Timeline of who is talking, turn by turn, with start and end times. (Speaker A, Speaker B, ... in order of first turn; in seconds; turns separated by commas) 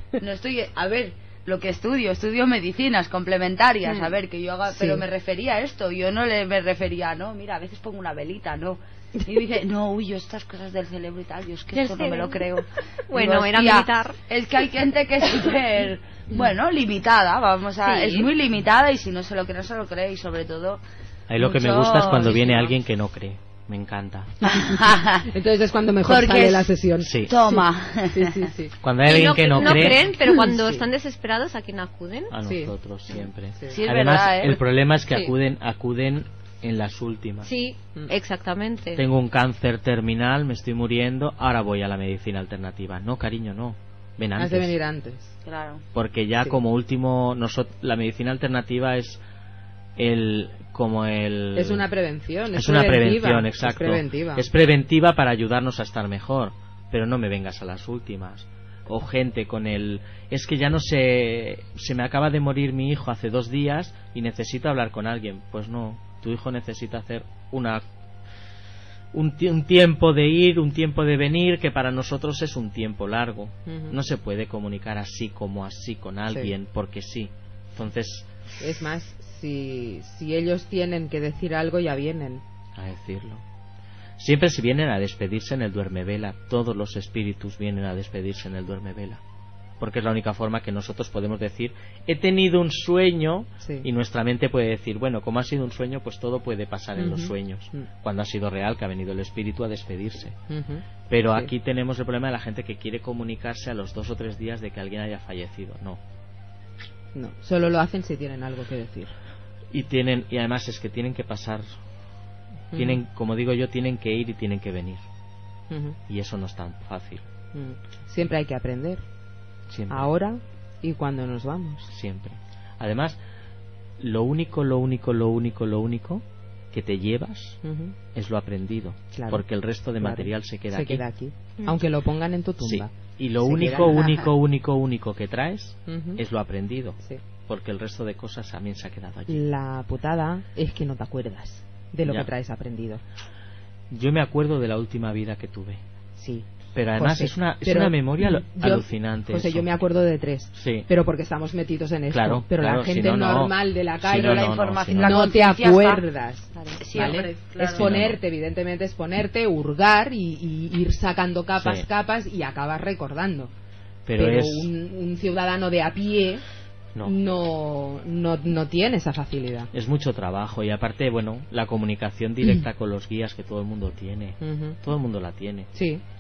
Speaker A: 0.2-20.8, Speaker B: 4.7-5.0, Speaker C: 11.7-12.4, Speaker C: 13.1-14.2, Speaker C: 17.8-18.3, Speaker D: 21.3-24.3, Speaker A: 21.4-22.7, Speaker A: 24.4-25.3, Speaker B: 25.3-28.8, Speaker A: 26.1-26.7, Speaker D: 27.0-27.3, Speaker A: 27.3-28.4, Speaker D: 28.8-30.1, Speaker C: 29.1-32.3, Speaker B: 30.5-30.9, Speaker D: 32.3-37.5, Speaker B: 32.4-32.7, Speaker A: 33.7-34.6, Speaker C: 37.4-39.0, Speaker D: 39.0-44.7, Speaker B: 44.4-45.4, Speaker A: 45.5-45.8, Speaker D: 45.9-49.2, Speaker D: 50.0-51.9, Speaker B: 51.5-54.5, Speaker D: 52.5-67.8, Speaker D: 69.1-78.3, Speaker B: 73.7-74.0, Speaker B: 78.6-82.4, Speaker D: 82.8-83.4, Speaker D: 84.2-89.2, Speaker D: 89.8-100.4, Speaker B: 93.6-93.9, Speaker B: 97.0-97.9, Speaker B: 100.5-101.5, Speaker D: 101.1-106.0, Speaker B: 107.2-109.1, Speaker D: 109.7-111.7, Speaker B: 112.7-113.0, Speaker D: 112.7-115.0, Speaker B: 115.7-116.0, Speaker D: 116.1-117.2, Speaker B: 117.5-119.0, Speaker D: 119.7-120.1, Speaker B: 119.9-121.9, Speaker D: 121.9-123.2, Speaker D: 124.0-127.6, Speaker B: 127.6-128.0, Speaker D: 128.1-131.0, Speaker B: 129.1-129.4, Speaker B: 130.0-134.3, Speaker D: 132.6-139.4, Speaker B: 135.9-136.2, Speaker B: 139.3-143.0, Speaker D: 143.9-145.8, Speaker B: 146.2-163.5, Speaker D: 146.8-149.8, Speaker D: 150.6-150.9, Speaker D: 152.1-155.2, Speaker A: 154.1-156.0, Speaker A: 156.8-157.9, Speaker D: 157.8-158.2, Speaker D: 164.1-164.7, Speaker B: 164.2-166.4, Speaker B: 167.0-169.7, Speaker D: 169.7-175.7, Speaker B: 174.4-174.8, Speaker B: 175.7-176.0